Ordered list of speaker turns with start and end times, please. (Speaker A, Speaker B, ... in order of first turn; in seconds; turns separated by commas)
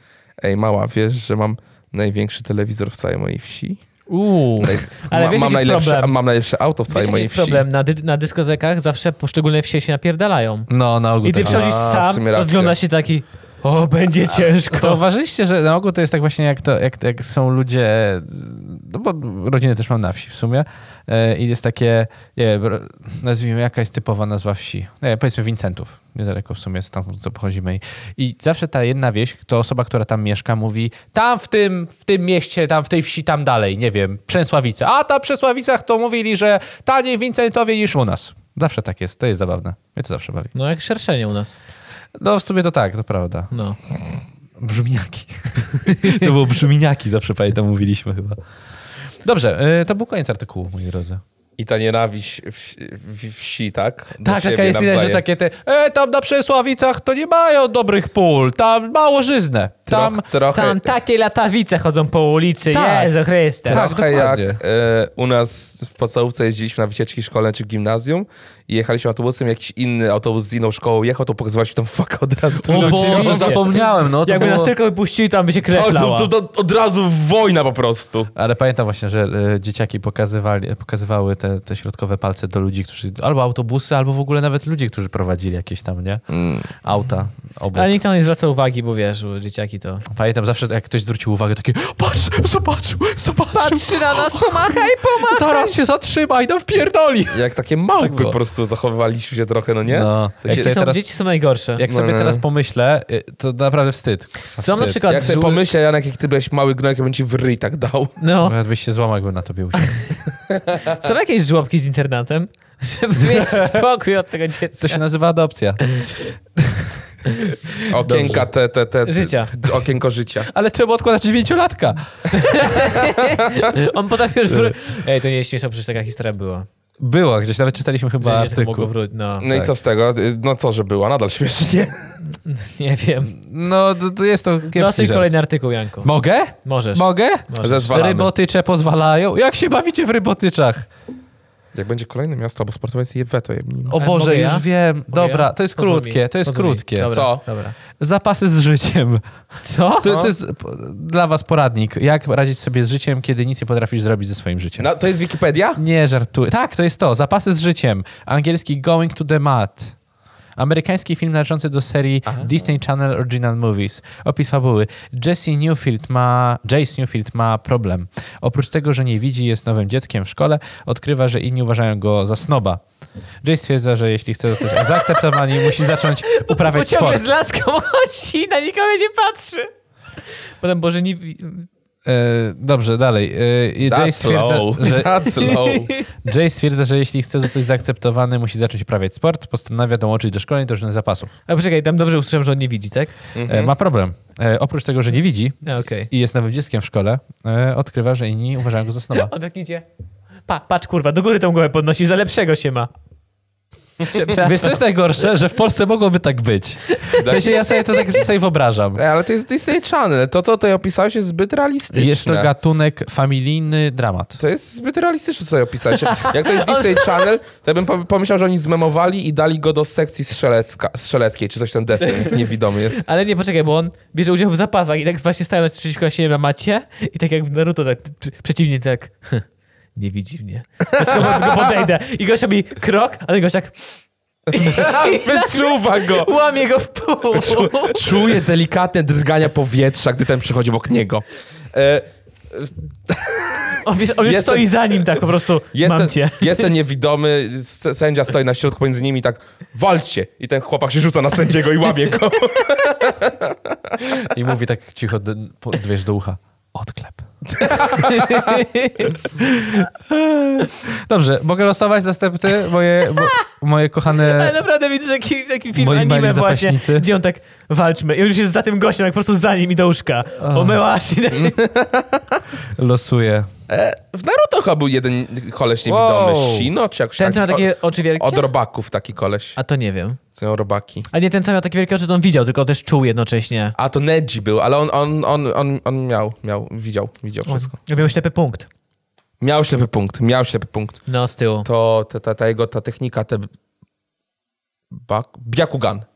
Speaker A: 0.4-3.8, Speaker B: 4.1-6.1, Speaker A: 4.6-7.7, Speaker B: 6.9-10.7, Speaker C: 10.7-11.7, Speaker B: 11.2-15.0, Speaker A: 11.4-12.7, Speaker C: 14.7-40.5, Speaker B: 40.5-41.5, Speaker C: 42.2-43.5, Speaker B: 43.5-43.8, Speaker C: 44.6-48.4, Speaker B: 46.0-46.3, Speaker C: 49.2-51.2, Speaker A: 51.6-55.2, Speaker C: 54.2-60.2, Speaker A: 59.9-60.9, Speaker B: 60.5-63.9, Speaker C: 62.7-63.1, Speaker C: 63.6-64.6, Speaker A: 63.7-73.8, Speaker C: 72.7-74.7, Speaker B: 72.7-76.3, Speaker A: 75.7-78.3, Speaker C: 78.3-86.2, Speaker A: 86.3-86.7, Speaker C: 86.8-87.9, Speaker B: 87.7-90.0, Speaker C: 90.1-97.4, Speaker B: 93.5-95.8, Speaker A: 97.3-100.7, Speaker C: 98.0-98.4, Speaker C: 99.9-101.0, Speaker B: 100.5-101.8, Speaker C: 101.8-105.0, Speaker A: 101.9-102.4, Speaker B: 104.6-105.6, Speaker A: 105.1-108.2, Speaker B: 108.2-108.5, Speaker C: 108.4-110.0, Speaker A: 110.5-111.0, Speaker B: 110.8-115.0, Speaker C: 113.2-113.8, Speaker C: 114.8-115.8, Speaker A: 117.9-120.5, Speaker C: 118.0-118.5, Speaker B: 119.0-119.5, Speaker C: 120.5-122.9, Speaker B: 122.4-126.7, Speaker C: 127.0-128.9, Speaker B: 128.2-129.5, Speaker A: 129.4-131.9, Speaker C: 129.4-129.7, Speaker B: 132.3-133.3, Speaker C: 133.3-135.3, Speaker B: 134.7-136.1, Speaker C: 136.0-140.9, Speaker B: 136.6-137.9, Speaker A: 137.6-138.3, Speaker A: 141.7-143.9, Speaker C: 143.9-147.2, Speaker B: 144.0-147.8, Speaker A: 147.1-147.4, Speaker C: 147.9-149.2, Speaker B: 149.6-150.2, Speaker C: 150.0-154.9, Speaker A: 150.0-150.3, Speaker A: 154.8-155.8, Speaker C: 155.8-159.9, Speaker C: 160.6-172.8, Speaker A: 162.2-162.5, Speaker C: 173.4-177.2, Speaker B: 174.7-179.7, Speaker B: 180.6-181.7, Speaker C: 182.0-185.2, Speaker A: 183.8-185.9, Speaker B: 185.3-186.1, Speaker C: 186.2-191.3, Speaker B: 191.5-193.1, Speaker A: 193.3-193.7, Speaker C: 193.4-195.6, Speaker B: 195.6-196.1, Speaker C: 196.1-199.3, Speaker B: 199.1-199.8, Speaker B: 200.5-202.9, Speaker B: 204.0-204.8, Speaker C: 204.3-209.0, Speaker B: 207.0-208.2, Speaker A: 207.2-207.5, Speaker A: 209.0-212.5, Speaker C: 211.9-214.4, Speaker A: 214.4-223.0, Speaker B: 216.0-217.3, Speaker B: 222.0-233.8, Speaker A: 230.9-231.8, Speaker A: 234.5-236.3, Speaker B: 234.5-238.3, Speaker A: 237.3-245.2, Speaker B: 243.8-246.7, Speaker A: 245.7-254.0, Speaker C: 254.0-258.1, Speaker A: 257.6-258.6, Speaker B: 257.8-259.8, Speaker C: 260.1-264.5, Speaker B: 264.1-271.6, Speaker C: 265.7-267.1, Speaker C: 270.4-270.8, Speaker A: 271.3-272.4, Speaker C: 272.8-273.5, Speaker A: 273.7-279.6, Speaker B: 275.9-278.5, Speaker B: 279.6-280.2, Speaker A: 280.3-281.1, Speaker B: 281.1-283.7, Speaker A: 283.8-287.7, Speaker B: 287.5-288.7, Speaker A: 289.4-291.0, Speaker B: 291.1-291.6, Speaker A: 291.6-293.5, Speaker A: 294.9-296.1